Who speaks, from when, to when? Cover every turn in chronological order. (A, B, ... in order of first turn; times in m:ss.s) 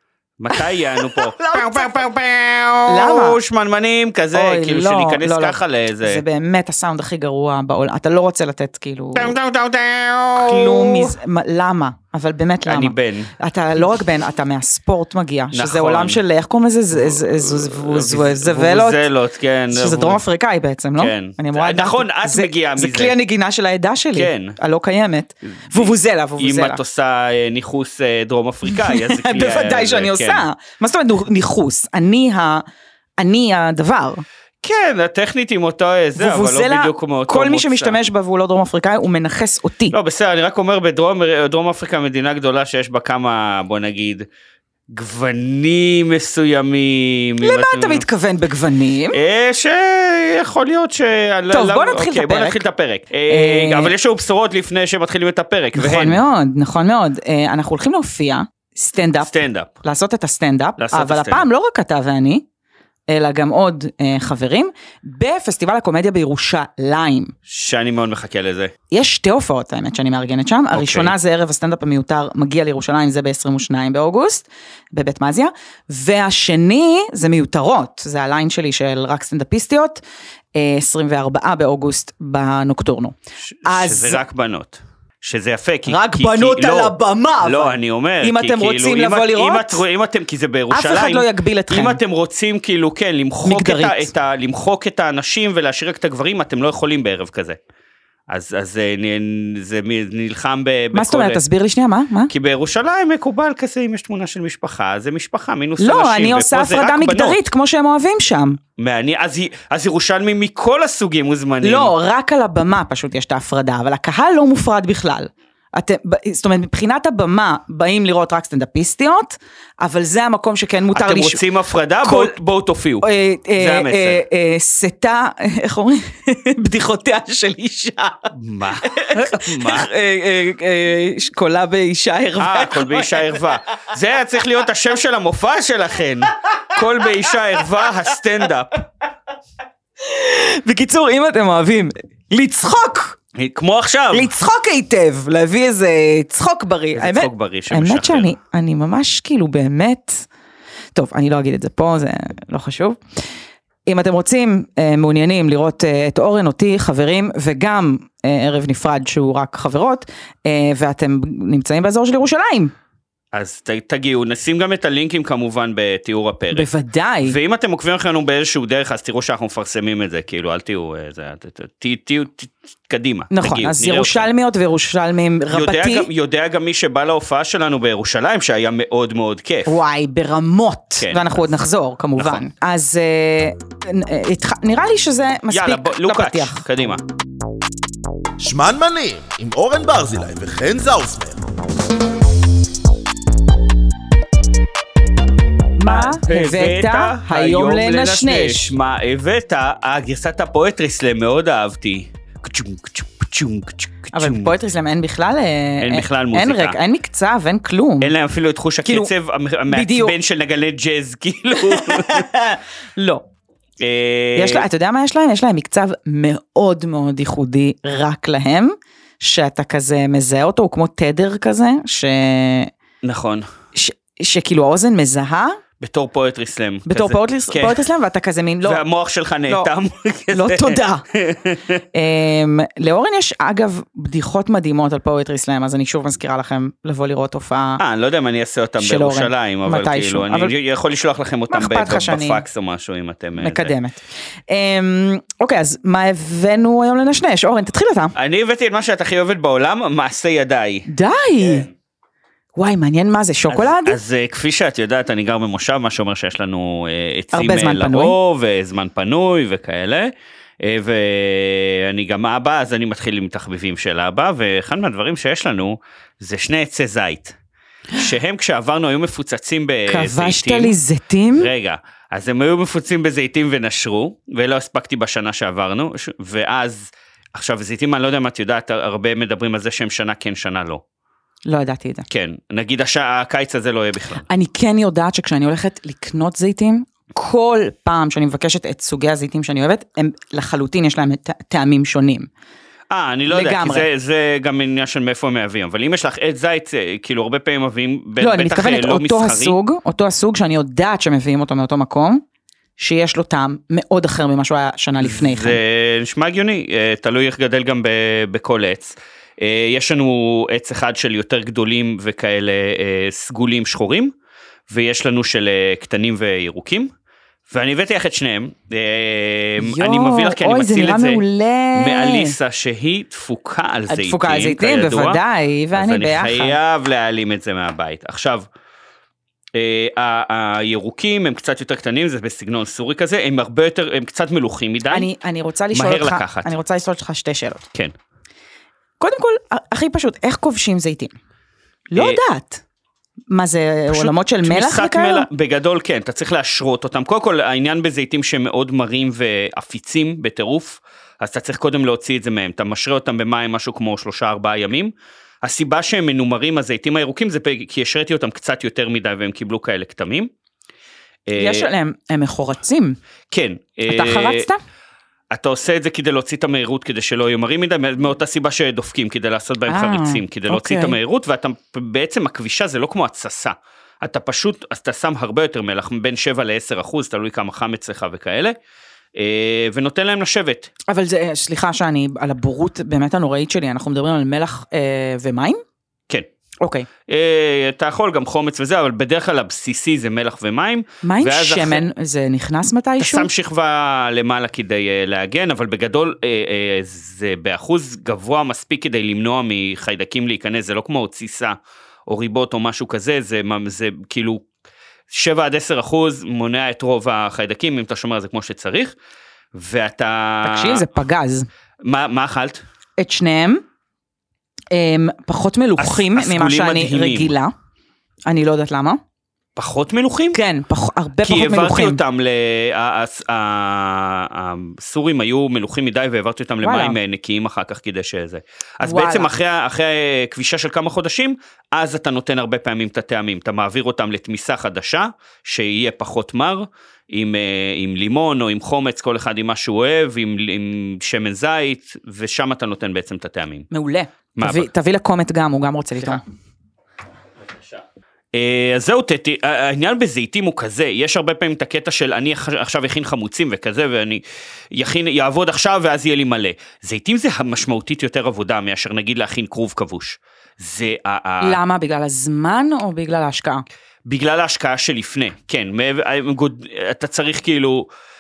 0:00.4-0:06.2 A
0:00.5-0:02.0 B
0:02.9-0:03.4 B
0:04.3-0:09.4 B
0:09.2-0:11.2 A
0:10.4-0:19.1 B
0:12.7-0:13.3 A
0:15.5-0:16.2 A
0:16.9-0:20.2 A
0:19.7-0:26.8 B
0:21.0-0:23.2 A
0:24.2-0:24.6 A
0:25.7-0:30.4 A
0:28.7-0:32.6 B
0:33.2-0:34.2 B
0:34.6-0:38.0 A
0:36.2-0:39.9 B
0:39.9-0:44.3 A
0:44.9-0:48.0 A
0:47.4-0:49.2 B
0:49.1-0:56.2 A
0:51.5-0:52.6 B
0:53.3-0:53.9 B
0:55.8-1:02.4 B
0:59.2-0:59.7 A
1:00.8-1:01.5 A
1:03.1-1:07.3 B
1:07.5-1:08.7 A
1:08.9-1:20.0 B
1:10.7-1:11.2 A
1:20.6-1:24.2 B
1:23.4-1:37.6 A
1:25.9-1:29.8 B
1:30.7-1:32.0 B
1:33.4-1:34.1 B
1:38.3-1:41.4 A
1:40.9-1:42.3 B
1:42.3-1:47.4 A
1:45.8-1:48.6 B
1:48.8-1:51.9 A
1:51.6-2:01.4 B
2:00.9-2:03.1 A
2:02.0-2:02.3 B
2:03.0-2:08.3 B
2:03.6-2:04.2 A
2:08.3-2:09.9 A
2:08.8-2:13.4 B
2:12.4-2:18.9 A
2:20.0-2:23.2 B
2:23.4-2:24.3 A
2:24.1-2:30.3 B
2:26.9-2:28.4 A
2:31.0-2:33.0 B
2:33.9-2:42.7 B
2:43.3-2:46.7 A
2:46.5-2:47.4 B
2:47.2-2:54.3 A
2:53.3-2:56.1 B
2:55.5-2:59.8 A
2:59.7-3:06.6 B
3:01.0-3:01.3 A
3:02.2-3:02.5 A
3:05.5-3:07.0 A
3:08.4-3:11.4 C
3:15.8-3:18.8 B
3:15.9-3:24.5 A
3:24.1-3:28.1 B
3:25.8-3:26.8 A
3:28.0-3:32.2 A
3:28.8-3:29.1 B
3:29.7-3:30.1 B
3:31.6-3:33.2 B
3:33.8-3:34.6 A
3:34.4-3:42.7 B
3:43.0-3:43.5 A
3:43.7-3:45.6 B
3:45.8-3:47.8 A
3:46.9-3:48.8 B
3:48.6-3:51.8 A
3:49.5-3:49.7 B
3:50.3-3:51.0 B
3:51.9-3:57.8 B
3:57.8-4:03.7 A
3:58.8-4:00.5 B
4:01.5-4:02.4 B
4:03.4-4:08.1 B
4:08.2-4:10.9 A
4:10.9-4:11.7 B
4:11.4-4:11.7 A
4:12.6-4:14.0 B
4:13.5-4:27.4 A
4:17.3-4:18.2 B
4:28.0-4:30.8 A
4:29.9-4:31.5 B
4:31.4-4:40.8 A
4:41.5-4:42.1 B
4:42.1-4:44.2 A
4:44.3-4:52.3 B
4:52.9-4:59.6 A
4:53.3-4:53.9 B
4:58.2-5:02.2 B
5:02.8-5:05.6 B
5:05.0-5:14.1 A
5:14.7-5:16.9 A
5:17.5-5:21.2 A
5:19.6-5:22.4 B
5:21.7-5:25.2 A
5:23.9-5:26.6 B
5:25.7-5:28.5 A
5:29.6-5:35.1 A
5:34.9-5:37.6 B
5:35.7-5:36.5 A
5:39.0-5:41.1 B
5:41.9-5:42.6 B
5:42.0-5:42.2 A
5:43.3-5:45.3 B
5:43.9-6:00.3 A
6:01.3-6:01.7 A
6:01.4-6:03.0 B
6:03.3-6:04.5 A
6:03.9-6:04.6 B
6:05.3-6:18.6 A
6:09.7-6:11.0 B
6:19.2-6:20.7 A
6:20.9-6:25.6 B
6:26.6-6:26.9 B
6:27.1-6:31.8 A
6:31.0-6:33.3 B
6:33.0-6:44.4 A
6:45.1-6:48.9 A
6:49.5-6:50.9 A
6:50.4-6:51.5 B
6:51.8-6:52.6 A
6:53.0-6:53.6 B
6:54.7-6:57.5 B
6:55.8-6:57.3 A
6:58.3-6:59.0 B
6:59.6-7:00.4 A
7:00.3-7:02.0 B
7:01.2-7:23.7 A
7:06.6-7:07.0 B
7:08.8-7:09.3 B
7:23.7-7:26.2 B
7:24.4-7:24.7 A
7:27.4-7:41.6 A
7:41.4-7:43.6 B
7:44.1-7:47.9 A